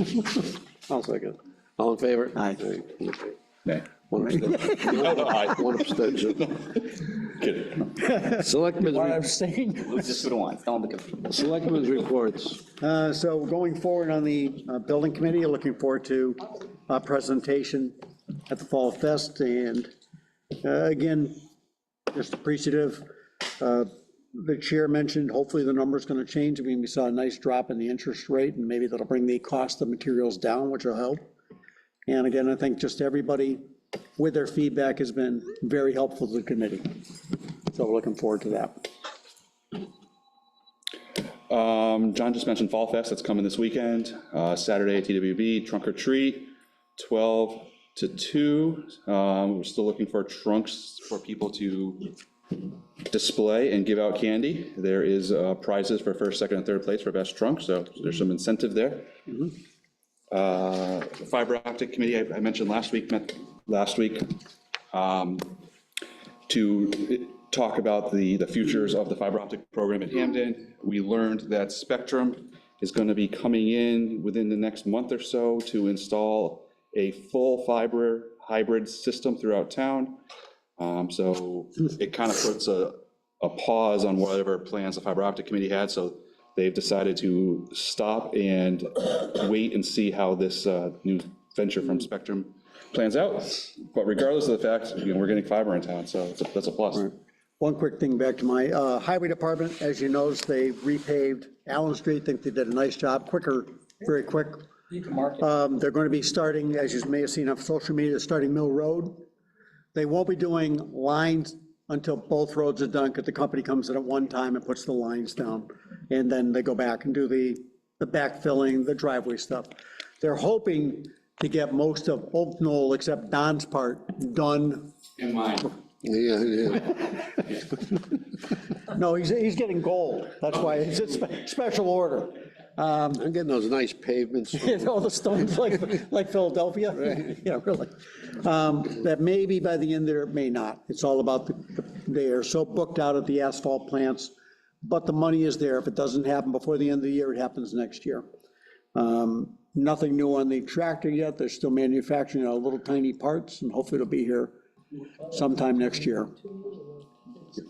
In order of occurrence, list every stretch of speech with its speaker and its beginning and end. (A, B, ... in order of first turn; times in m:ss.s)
0:00.9-0:03.4 A
0:04.1-0:06.6 A
0:04.3-0:05.1 B
0:04.7-0:08.0 C
0:08.0-0:10.3 B
0:08.3-0:09.2 A
0:10.1-0:11.2 C
0:11.2-0:12.7 A
0:12.8-0:18.0 B
0:18.5-0:19.9 B
0:20.6-0:21.4 B
0:22.1-0:23.1 B
0:23.6-0:31.2 B
0:32.1-0:33.6 B
0:34.2-0:37.0 B
0:37.7-0:38.9 B
0:41.5-0:52.1 C
0:53.1-0:59.1 C
1:00.3-1:04.4 C
1:04.9-1:05.6 C
1:06.5-1:20.2 C
1:20.8-1:37.1 C
1:36.9-1:49.3 B
1:49.9-2:04.9 B
2:05.2-2:05.8 C
2:06.0-2:07.1 A
2:08.9-2:13.2 B
2:13.2-2:14.9 A
2:14.5-2:28.2 B
2:28.9-2:34.6 B
2:35.3-2:36.4 B